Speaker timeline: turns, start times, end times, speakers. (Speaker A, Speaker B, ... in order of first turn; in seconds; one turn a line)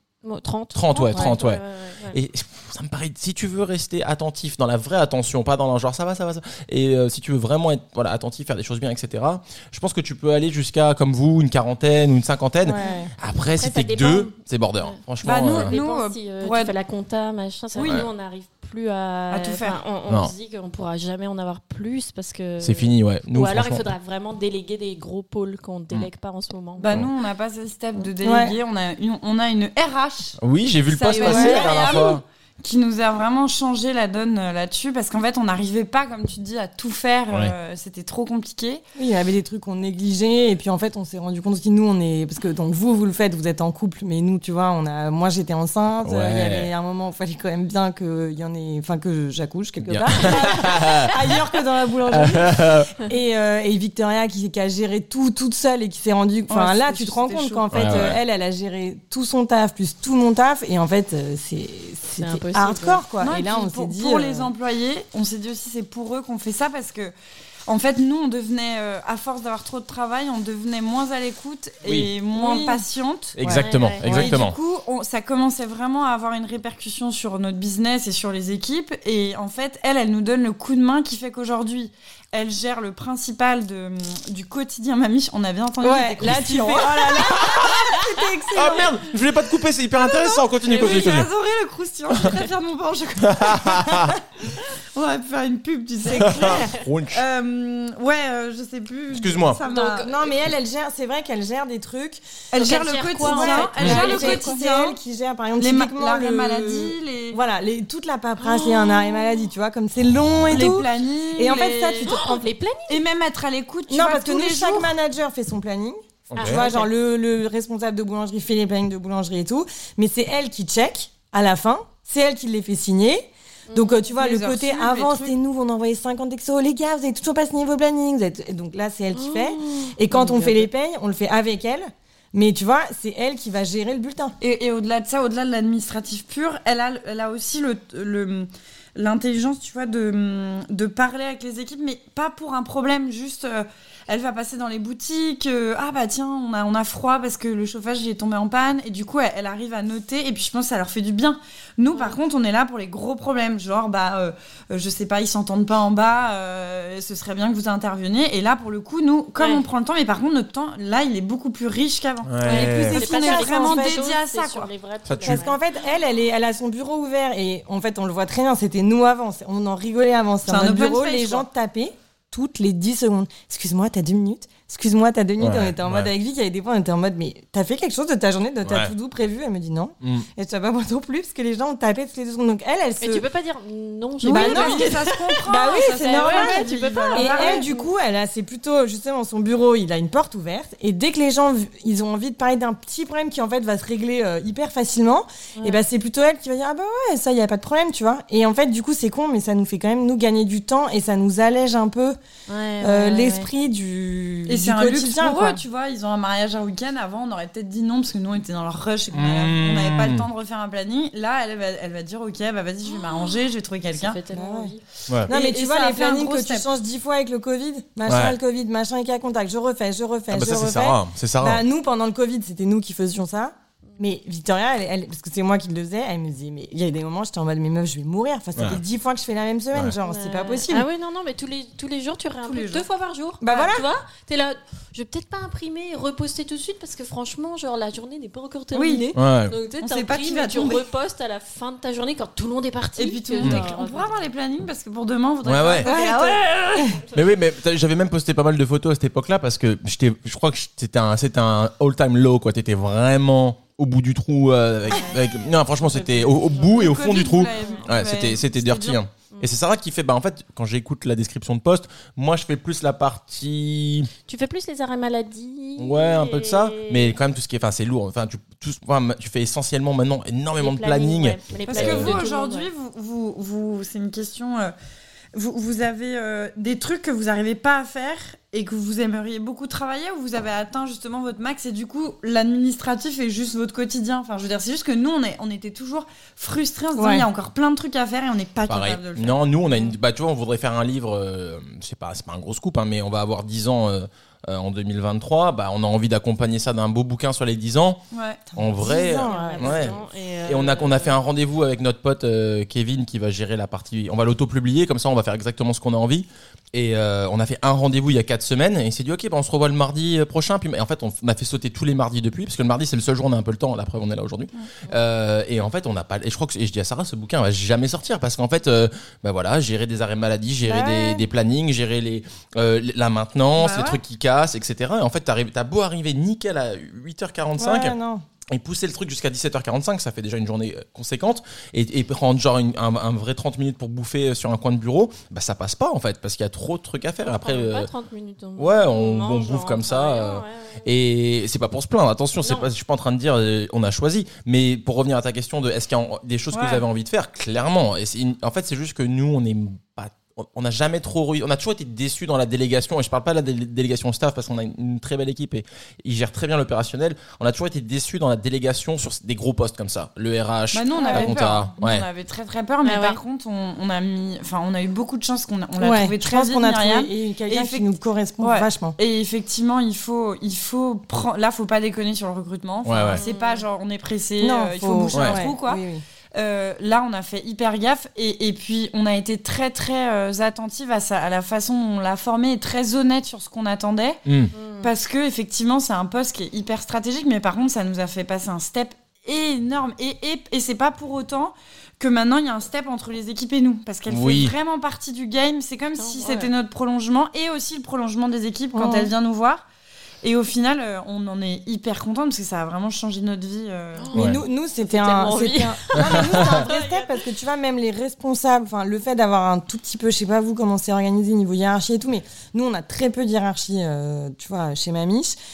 Speaker A: 0.2-2.2
Speaker B: 0.7-15.8
Speaker C: 12.6-13.1
Speaker A: 13.6-27.0
Speaker D: 15.2-16.7
Speaker D: 17.8-18.1
Speaker B: 17.8-18.1
Speaker D: 19.3-19.8
Speaker B: 20.1-20.3
Speaker B: 22.6-23.9
Speaker D: 26.8-30.4
Speaker C: 28.2-28.5
Speaker B: 30.4-32.2
Speaker D: 30.9-38.8
Speaker C: 31.2-31.7
Speaker A: 31.2-32.0
Speaker B: 37.3-37.5
Speaker C: 39.0-64.5
Speaker B: 46.0-46.7
Speaker B: 49.8-51.3
Speaker B: 52.1-52.9
Speaker D: 56.5-57.7
Speaker B: 57.7-58.2
Speaker A: 62.2-63.0
Speaker D: 63.2-67.1
Speaker D: 67.7-73.4
Speaker B: 71.8-72.1
Speaker C: 72.3-72.8
Speaker B: 73.4-74.6
Speaker C: 73.4-74.3
Speaker A: 73.5-74.0
Speaker D: 74.0-87.5
Speaker C: 85.8-89.0
Speaker B: 87.2-87.9
Speaker B: 88.5-91.3
Speaker D: 90.0-100.1
Speaker B: 93.2-94.2
Speaker B: 96.1-97.2
Speaker B: 99.1-99.6
Speaker A: 99.6-100.3
Speaker C: 99.8-102.2
Speaker D: 102.5-105.0
Speaker A: 102.5-104.5
Speaker C: 103.2-112.5
Speaker D: 105.6-107.4
Speaker A: 108.4-109.3
Speaker D: 110.5-112.2
Speaker A: 111.5-113.0
Speaker D: 112.9-115.0
Speaker C: 113.9-134.3
Speaker B: 116.3-116.6
Speaker A: 116.4-116.9
Speaker A: 123.7-124.0
Speaker D: 124.2-125.3
Speaker A: 129.2-130.7
Speaker D: 134.4-164.7
Speaker B: 162.2-163.0
Speaker A: 162.4-165.6
Speaker C: 162.5-164.0
Speaker B: 165.1-165.4
Speaker C: 165.2-183.2
Speaker D: 170.5-171.5
Speaker B: 175.4-176.1
Speaker B: 178.6-178.9
Speaker A: 183.0-187.9
Speaker D: 184.2-187.7
Speaker C: 184.2-202.2
Speaker A: 202.5-203.5
Speaker C: 202.8-205.6
Speaker D: 204.5-214.2
Speaker B: 209.1-210.2
Speaker A: 213.9-214.8
Speaker C: 214.3-214.7
Speaker D: 215.3-216.7
Speaker C: 215.3-230.9
Speaker B: 218.1-218.4
Speaker B: 220.3-221.6
Speaker B: 228.6-228.8
Speaker A: 230.1-244.1
Speaker D: 232.4-232.9
Speaker C: 233.4-233.9
Speaker D: 238.7-239.1
Speaker B: 239.2-239.6
Speaker D: 239.8-240.9
Speaker D: 243.0-246.6
Speaker B: 243.4-243.7
Speaker B: 245.4-245.9
Speaker C: 245.8-247.1
Speaker B: 247.1-264.1
Speaker A: 254.9-257.9
Speaker D: 256.6-259.0
Speaker A: 264.3-267.1
Speaker B: 265.8-272.2
Speaker A: 270.6-272.7
Speaker D: 271.7-274.7
Speaker D: 275.3-289.8
Speaker C: 287.0-287.2
Speaker B: 288.7-298.0
Speaker D: 298.1-298.4
Speaker C: 298.5-299.9
Speaker B: 298.6-328.0
Speaker A: 298.9-301.2
Speaker C: 320.6-321.2
Speaker D: 323.6-324.0
Speaker C: 327.6-328.2
Speaker B: 328.5-337.9
Speaker A: 337.2-340.9
Speaker B: 338.6-362.1
Speaker A: 342.4-342.7
Speaker D: 346.5-346.8
Speaker D: 360.7-367.9
Speaker C: 361.0-361.3
Speaker A: 362.8-363.2
Speaker C: 365.8-369.0
Speaker D: 368.4-375.8
Speaker B: 372.9-373.2
Speaker A: 373.1-373.6
Speaker C: 374.4-376.0
Speaker B: 375.1-375.4
Speaker D: 376.3-384.2
Speaker B: 384.2-384.5
Speaker A: 384.5-384.9
Speaker D: 384.8-399.6
Speaker B: 394.1-394.6
Speaker A: 396.0-396.5
Speaker C: 398.7-399.1
Speaker D: 400.2-404.1
Speaker A: 404.0-407.2
Speaker B: 404.1-404.4
Speaker C: 404.1-415.4
Speaker B: 406.0-406.6